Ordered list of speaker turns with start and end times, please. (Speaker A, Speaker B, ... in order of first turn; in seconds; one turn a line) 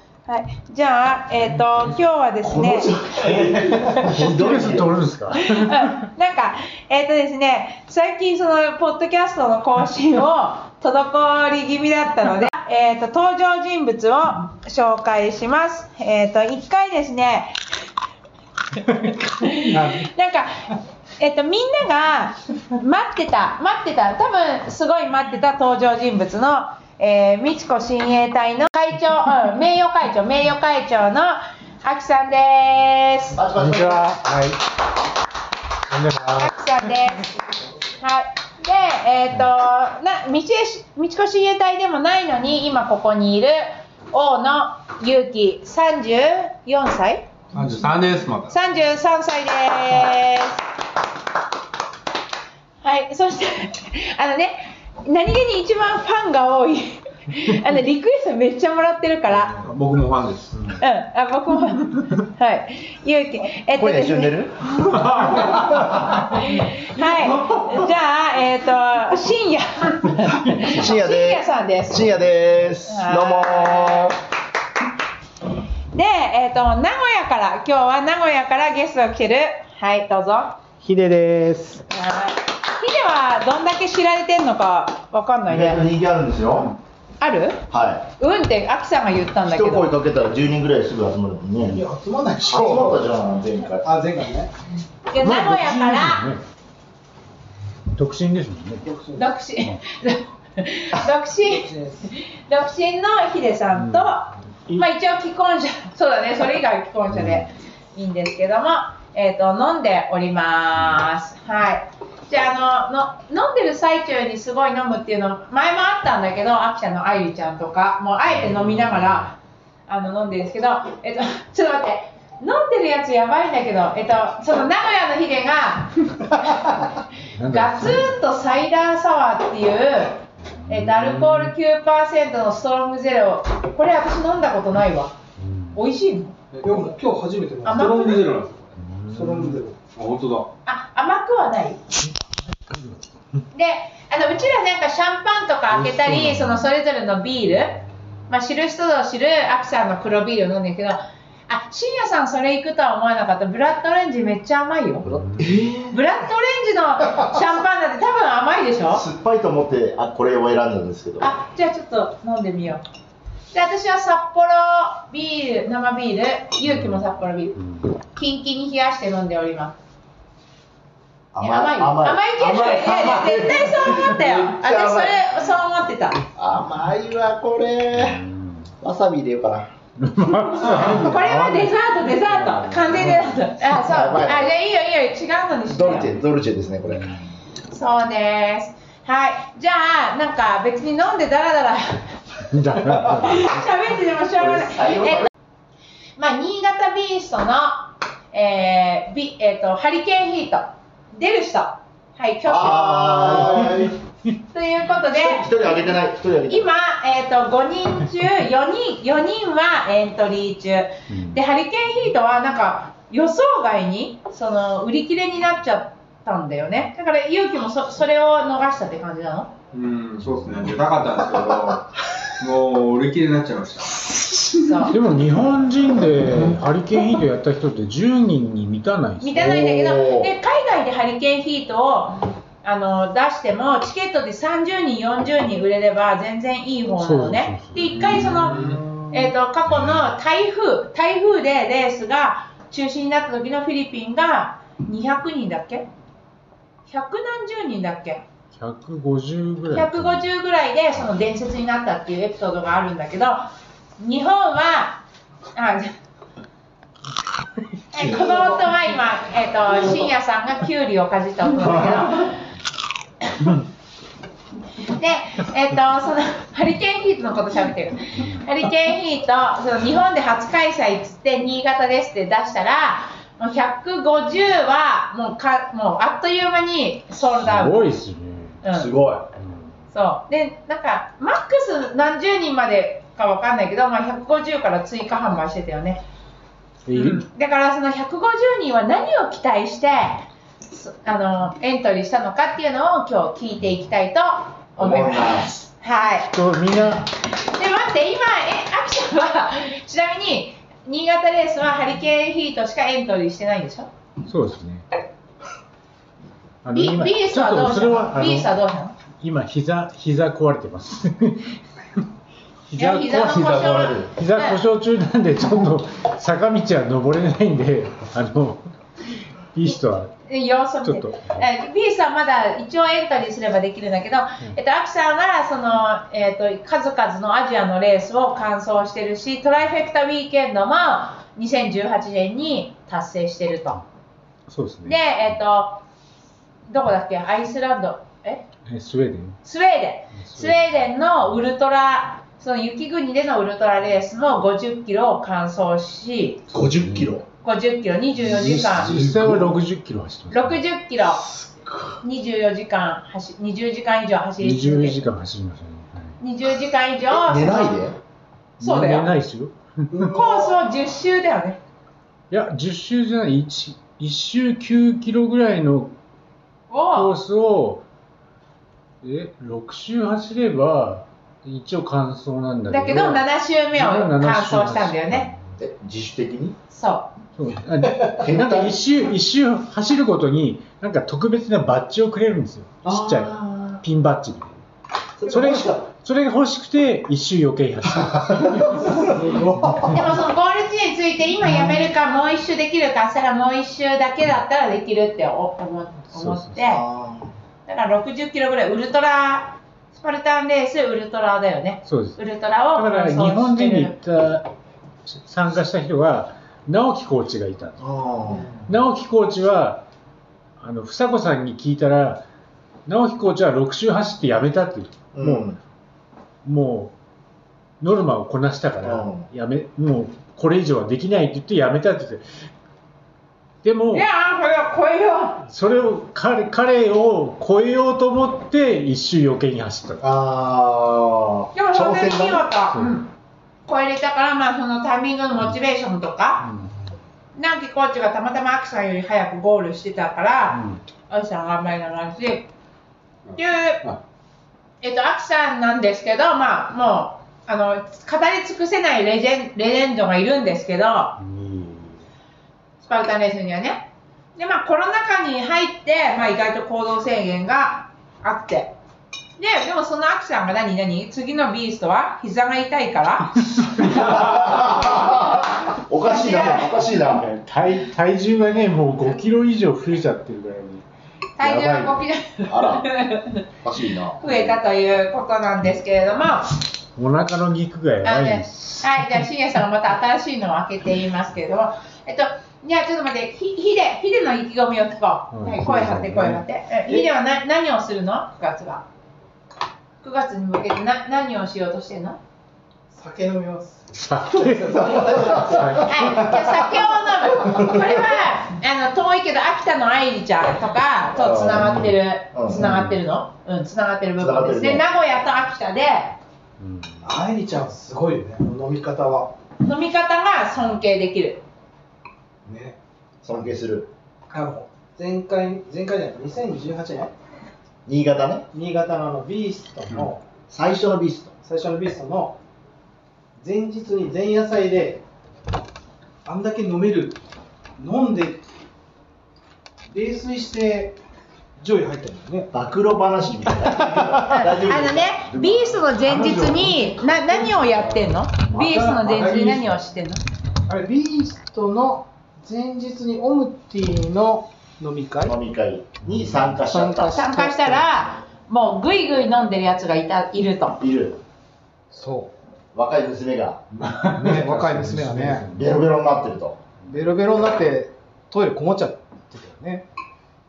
Speaker A: 0.3-3.0
Speaker B: 2.4-4.9
Speaker C: 3.4-6.0
Speaker A: 5.3-17.6
Speaker A: 19.3-33.4
Speaker C: 19.4-20.1
Speaker B: 33.3-34.1
Speaker C: 33.5-34.6
Speaker C: 35.9-36.5
Speaker A: 36.3-37.4
Speaker A: 38.0-47.2
Speaker D: 47.5-48.6
Speaker A: 48.5-50.6
Speaker A: 52.8-59.6
Speaker D: 59.5-60.8
Speaker A: 60.8-64.3
Speaker B: 63.7-64.8
Speaker A: 65.9-72.1
Speaker B: 70.5-74.2
Speaker A: 72.8-74.1
Speaker A: 75.9-80.6
Speaker E: 80.8-81.8
Speaker A: 81.9-85.9
Speaker B: 85.5-86.7
Speaker A: 87.2-87.6
Speaker B: 87.7-88.0
Speaker A: 88.2-89.9
Speaker B: 89.4-91.8
Speaker E: 91.6-93.1
Speaker B: 92.4-93.9
Speaker E: 93.8-94.5
Speaker A: 95.1-96.3
Speaker C: 95.2-96.4
Speaker C: 97.9-98.8
Speaker A: 99.1-119.3
Speaker E: 101.6-102.0
Speaker C: 103.8-104.1
Speaker C: 107.2-107.4
Speaker C: 118.6-119.0
Speaker A: 119.9-135.1
Speaker C: 127.3-128.1
Speaker C: 130.6-131.5
Speaker C: 135.4-135.8
Speaker A: 135.7-136.3
Speaker D: 136.5-136.9
Speaker E: 136.6-137.9
Speaker A: 137.6-138.2
Speaker D: 137.6-138.8
Speaker C: 138.8-139.6
Speaker E: 139.1-139.8
Speaker D: 139.9-140.5
Speaker A: 140.7-141.8
Speaker C: 142.7-142.9
Speaker A: 143.5-155.1
Speaker C: 146.1-146.6
Speaker B: 155.1-156.0
Speaker A: 155.9-159.1
Speaker B: 158.9-161.3
Speaker A: 161.2-162.8
Speaker A: 163.5-167.6
Speaker C: 166.7-167.0
Speaker A: 168.1-169.7
Speaker B: 171.3-175.2
Speaker A: 171.4-176.2
Speaker B: 176.3-178.2
Speaker C: 177.9-178.6
Speaker B: 178.8-179.7
Speaker C: 180.0-183.5
Speaker B: 180.6-181.1
Speaker A: 180.6-186.1
Speaker B: 183.7-184.5
Speaker B: 185.7-187.2
Speaker A: 187.7-192.2
Speaker C: 192.5-193.6
Speaker A: 193.1-195.3
Speaker B: 194.4-195.3
Speaker A: 196.2-203.8
Speaker B: 202.4-203.9
Speaker C: 203.4-203.9
Speaker A: 204.5-205.7
Speaker B: 205.1-206.7
Speaker A: 206.5-219.5
Speaker C: 211.1-211.4
Speaker D: 219.7-224.6
Speaker A: 224.6-224.9
Speaker C: 224.9-229.5
Speaker A: 229.2-245.9
Speaker B: 229.3-230.3
Speaker C: 237.0-238.4
Speaker D: 237.9-238.9
Speaker A: 246.9-248.2
Speaker C: 248.5-250.3
Speaker A: 249.7-253.4
Speaker A: 254.0-255.0
Speaker A: 255.5-255.9
Speaker A: 257.9-262.4
Speaker B: 257.9-258.7
Speaker B: 261.6-262.3
Speaker A: 264.9-277.9
Speaker C: 277.4-278.6
Speaker A: 278.6-278.9
Speaker B: 278.7-279.3
Speaker C: 279.4-279.7
Speaker A: 279.9-286.0
Speaker C: 286.9-287.3
Speaker A: 286.9-296.3
Speaker B: 294.8-295.5
Speaker C: 296.3-297.1
Speaker A: 297.3-303.9
Speaker C: 304.3-304.9
Speaker C: 306.6-308.5
Speaker A: 306.7-308.9
Speaker C: 309.2-311.6
Speaker C: 312.7-318.6
Speaker A: 312.8-314.6
Speaker C: 319.5-320.1
Speaker A: 320.2-333.8
Speaker C: 320.8-321.4
Speaker C: 334.5-335.1
Speaker A: 334.8-335.8
Speaker A: 336.7-338.4
Speaker C: 338.6-339.4
Speaker A: 339.4-346.4
Speaker C: 340.1-340.7
Speaker B: 346.5-347.2
Speaker C: 346.6-347.1
Speaker A: 347.4-349.0
Speaker C: 348.2-350.6
Speaker B: 348.7-349.5
Speaker A: 350.3-351.2
Speaker B: 351.4-351.9
Speaker A: 352.0-355.0
Speaker C: 354.4-356.2
Speaker A: 356.2-357.8
Speaker B: 357.1-358.0
Speaker A: 358.6-359.1
Speaker C: 358.6-360.1
Speaker E: 359.9-360.2
Speaker A: 360.0-361.6
Speaker C: 362.3-365.9
Speaker A: 366.7-367.1
Speaker C: 366.9-367.8
Speaker C: 369.0-375.4
Speaker A: 372.7-375.3
Speaker B: 375.6-376.6
Speaker A: 376.7-377.1
Speaker C: 377.4-384.5
Speaker B: 378.1-378.8
Speaker B: 382.8-383.8
Speaker B: 385.2-385.9
Speaker C: 385.3-389.0
Speaker B: 388.2-389.9
Speaker E: 389.1-389.9
Speaker A: 389.8-396.8
Speaker C: 396.1-396.6
Speaker B: 396.6-397.3
Speaker A: 397.6-404.0
Speaker C: 401.8-402.2
Speaker C: 402.7-404.5
Speaker C: 405.1-407.8
Speaker B: 407.8-408.5
Speaker C: 408.6-409.9
Speaker C: 410.6-412.2
Speaker C: 412.9-415.6
Speaker B: 415.1-415.6
Speaker C: 416.4-416.9
Speaker C: 417.8-422.2
Speaker B: 418.8-419.3
Speaker C: 423.6-424.1
Speaker A: 423.9-425.4
Speaker C: 425.5-430.0
Speaker B: 430.0-432.4
Speaker A: 431.5-433.1
Speaker A: 433.6-436.5
Speaker C: 436.4-436.7
Speaker A: 437.4-442.5
Speaker C: 440.5-440.8
Speaker D: 443.2-444.0
Speaker A: 443.4-443.8
Speaker A: 444.8-451.2
Speaker C: 451.2-452.0
Speaker A: 452.8-458.7
Speaker A: 459.4-464.4
Speaker B: 463.9-467.2
Speaker C: 463.9-464.2
Speaker A: 466.0-466.9
Speaker C: 467.1-470.9
Speaker A: 471.4-473.4
Speaker C: 471.4-472.0
Speaker B: 472.5-472.9
Speaker B: 473.6-474.5
Speaker A: 474.2-476.6
Speaker C: 476.9-479.3
Speaker A: 478.0-488.8
Speaker C: 485.3-486.4
Speaker A: 490.0-492.2
Speaker E: 492.9-496.5
Speaker C: 493.9-496.4
Speaker B: 494.7-495.8
Speaker A: 495.8-506.1
Speaker B: 497.4-497.9
Speaker B: 501.1-502.8
Speaker C: 502.6-503.0
Speaker B: 504.2-504.8
Speaker C: 506.6-507.1
Speaker E: 507.0-509.3
Speaker A: 509.6-511.4
Speaker E: 512.5-512.8
Speaker B: 513.2-513.9
Speaker E: 514.3-517.1
Speaker B: 517.9-518.5
Speaker E: 518.5-520.2
Speaker B: 520.5-521.3
Speaker E: 521.4-522.4
Speaker E: 523.4-525.0
Speaker E: 526.2-527.2
Speaker E: 527.8-528.4
Speaker E: 529.9-531.0
Speaker E: 531.6-532.5
Speaker B: 532.5-537.0
Speaker E: 533.9-534.2
Speaker A: 534.3-540.2
Speaker C: 538.5-539.6
Speaker E: 540.7-545.4
Speaker B: 545.2-547.8
Speaker A: 546.7-550.8
Speaker B: 550.8-551.2
Speaker E: 551.9-552.3
Speaker B: 552.7-553.6
Speaker C: 553.7-555.8
Speaker E: 554.1-555.5
Speaker B: 555.5-556.6
Speaker E: 556.9-559.9